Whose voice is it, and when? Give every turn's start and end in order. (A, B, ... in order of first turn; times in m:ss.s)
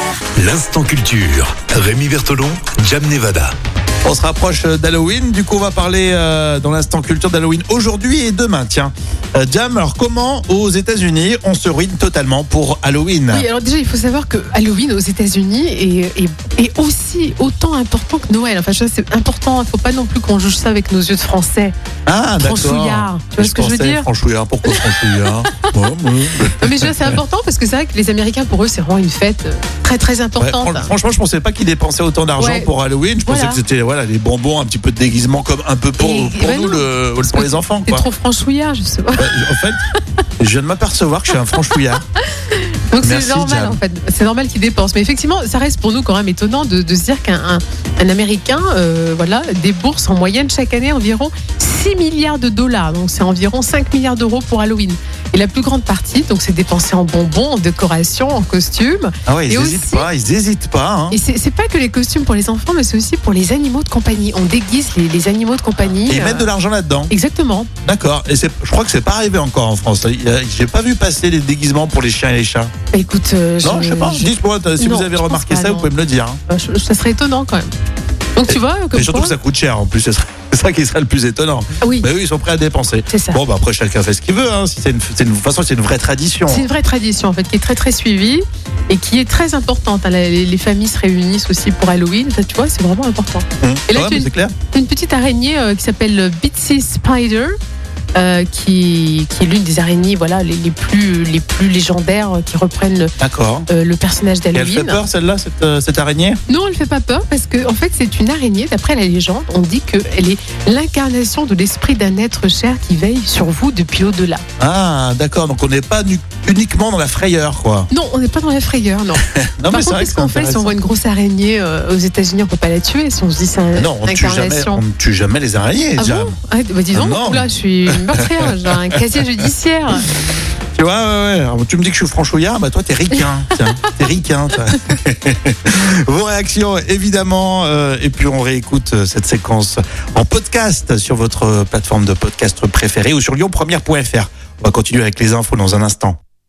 0:00.4-0:03.5 A
0:04.0-0:13.5 B
0:13.3-0:21.7 C
0:22.0-0:27.2 B
0:22.4-0:24.1 C
0:24.7-0:25.6 C
0:26.6-0:30.9 C
0:30.4-0:38.1 B
0:32.4-0:32.7 C
0:33.2-0:33.6 C
0:36.0-0:39.4 C
0:39.1-0:39.8 B
0:40.4-0:42.0 B
0:42.4-1:00.1 C
0:43.0-0:43.8 B
0:59.2-1:01.2 B
1:01.1-1:06.5 C
1:05.9-1:07.1 B
1:07.1-1:07.7 C
1:07.8-1:12.7 B
1:12.9-1:15.9 C
1:13.6-1:16.4 B
1:16.5-1:17.7 C
1:18.4-1:19.4 C
1:18.5-1:26.6 B
1:21.8-1:22.1 C
1:23.1-1:23.4 C
1:26.5-1:37.5 C
1:33.6-1:34.5 B
1:38.1-1:43.1 C
1:43.2-1:43.7 B
1:43.7-1:45.0 C
1:44.5-1:46.4 B
1:46.5-1:54.4 C
1:54.6-1:57.9 B
1:57.9-2:04.8 C
1:59.2-2:00.8 B
2:03.7-2:06.3 B
2:06.0-2:10.1 C
2:06.9-2:08.7 B
2:10.7-2:26.2 B
2:13.2-2:13.9 C